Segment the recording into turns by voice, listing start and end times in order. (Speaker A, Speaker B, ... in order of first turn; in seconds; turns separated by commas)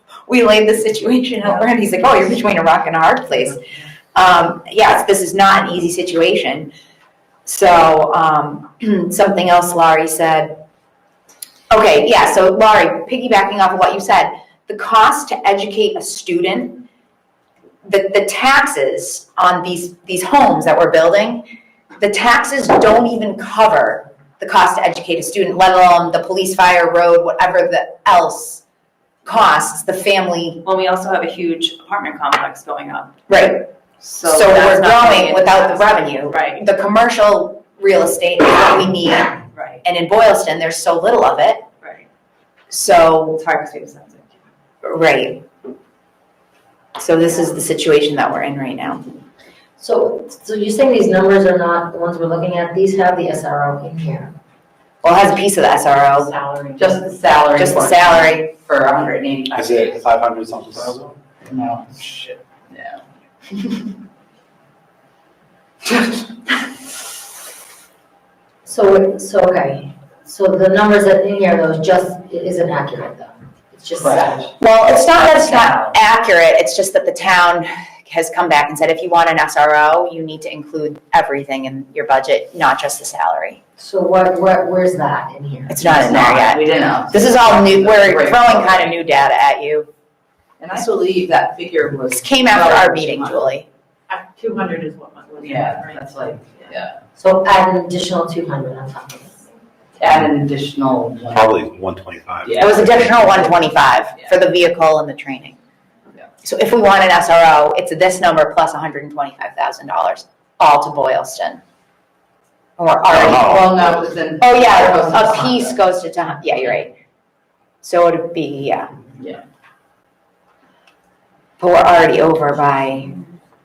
Speaker A: 0.3-3.6, Speaker A: 4.1-6.7, Speaker A: 7.5-10.6, Speaker A: 11.7-16.8, Speaker A: 17.8-28.6, Speaker A: 29.2-30.6, Speaker B: 30.6-33.2, Speaker A: 33.3-33.7, Speaker B: 34.0-36.6, Speaker A: 34.2-41.6, Speaker B: 39.5-39.8, Speaker B: 41.8-42.1, Speaker A: 42.7-43.4, Speaker B: 43.4-44.4, Speaker A: 44.8-45.4, Speaker A: 47.0-49.1, Speaker C: 49.8-54.3, Speaker A: 55.0-56.3, Speaker C: 56.2-56.8, Speaker D: 56.8-60.0, Speaker A: 57.5-58.5, Speaker E: 59.5-61.1, Speaker D: 61.4-63.0, Speaker C: 68.6-74.5, Speaker D: 73.9-75.9, Speaker A: 74.6-83.6, Speaker C: 83.8-85.9, Speaker A: 85.7-89.9, Speaker D: 85.8-88.9, Speaker D: 90.6-93.5, Speaker A: 92.1-93.6, Speaker F: 94.1-96.8, Speaker D: 95.4-96.9, Speaker C: 97.2-99.5, Speaker D: 100.0-101.5, Speaker E: 101.3-102.9, Speaker D: 102.4-103.5, Speaker A: 102.6-105.5, Speaker A: 106.4-111.6, Speaker A: 112.8-113.7, Speaker D: 113.1-115.7, Speaker E: 113.1-113.6, Speaker A: 114.4-117.0, Speaker A: 117.8-118.9, Speaker A: 121.6-123.1